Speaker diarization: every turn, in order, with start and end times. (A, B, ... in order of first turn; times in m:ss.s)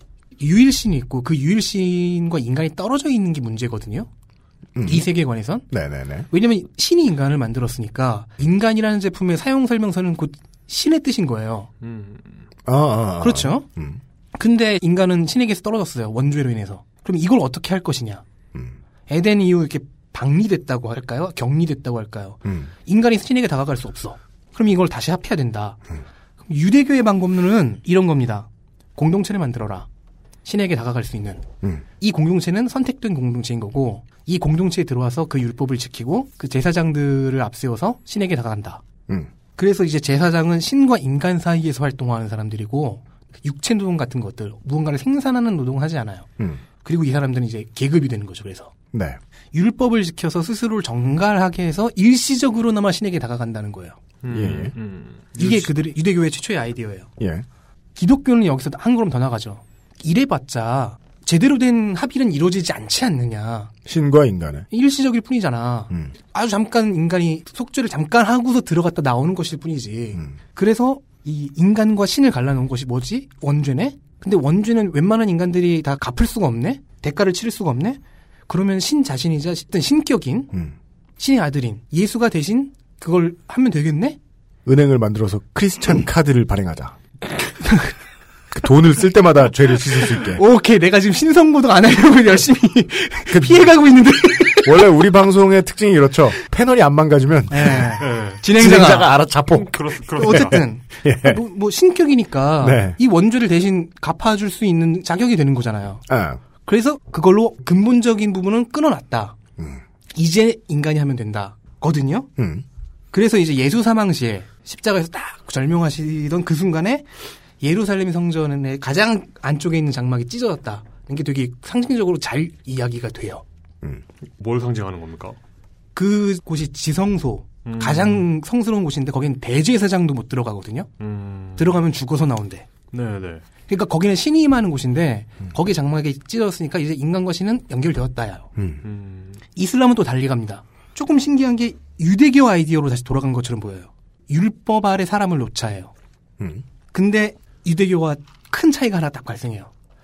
0:00.4-0:04.1 A
0:04.8-0:05.1 B
0:04.8-0:05.6 A
0:05.7-0:06.3 B
0:06.3-0:11.7 A
0:11.8-0:12.4 C
0:12.6-0:14.0 B
0:13.2-0:13.6 A
0:14.4-0:18.2 A
0:19.1-0:25.8 A
0:22.4-0:22.7 B
0:26.5-0:29.9 A
0:30.4-0:38.8 A
0:39.6-0:46.2 A
0:46.8-0:48.7 A
0:48.9-0:49.2 B
0:49.5-0:54.0 A
0:54.2-0:55.7 C
0:54.3-0:54.7 B
0:55.4-0:57.1 A
0:57.2-0:57.4 B
0:58.0-1:03.7 A
1:03.8-1:04.7 B
1:04.7-1:20.5 A
1:21.2-1:24.2 A
1:24.6-1:27.0 B
1:28.5-1:30.4 B
1:30.0-1:34.8 A
1:33.3-1:33.8 B
1:34.4-1:41.4 B
1:37.5-1:39.2 A
1:37.9-1:38.5 C
1:39.5-1:40.6 C
1:40.1-1:46.0 A
1:42.6-1:43.0 B
1:46.1-1:46.4 B
1:46.6-1:49.4 A
1:50.1-1:52.3 A
1:52.4-1:52.6 B
1:53.1-1:57.0 A
1:57.6-2:03.4 A
2:04.4-2:05.4 C
2:05.9-2:10.9 A
2:07.6-2:08.3 C
2:11.0-2:11.8 C
2:11.6-2:12.7 A
2:12.9-2:13.4 C
2:13.7-2:18.5 A
2:18.6-2:18.8 B
2:18.8-2:19.4 C
2:19.5-2:25.9 A
2:26.4-2:26.6 B
2:26.9-2:29.7 A